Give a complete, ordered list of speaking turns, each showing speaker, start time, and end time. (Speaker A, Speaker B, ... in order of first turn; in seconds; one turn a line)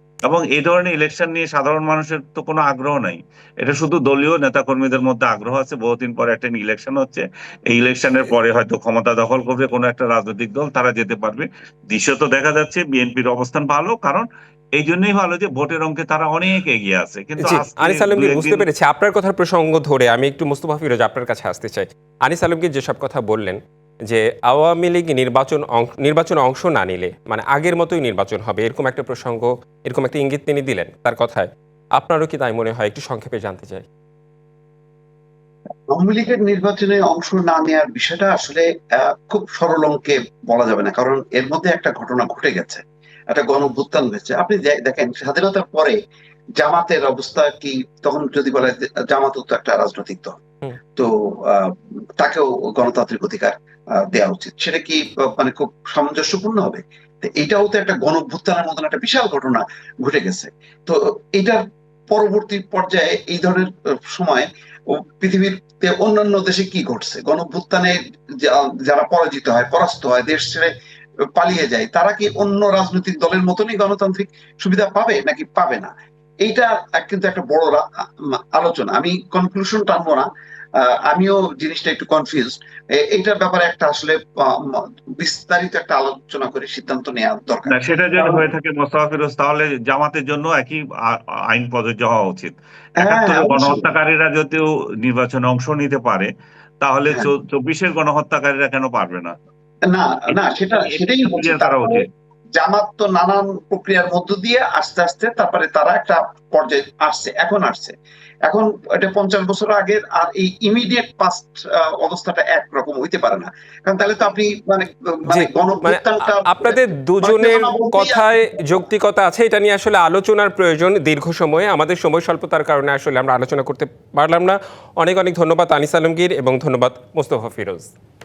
Speaker A: 0.2-18.6
Speaker B: 17.4-33.9
Speaker C: 35.9-46.0
Speaker C: 46.6-50.3
Speaker C: 51.0-53.5
Speaker C: 54.1-70.7
Speaker C: 71.3-75.9
Speaker C: 76.4-77.8
Speaker C: 78.5-80.2
Speaker C: 80.8-88.4
Speaker A: 87.7-96.3
Speaker C: 93.0-93.8
Speaker A: 96.8-99.3
Speaker C: 99.9-102.0
Speaker A: 100.3-102.0
Speaker C: 102.6-107.9
Speaker C: 108.5-118.8
Speaker B: 115.3-127.9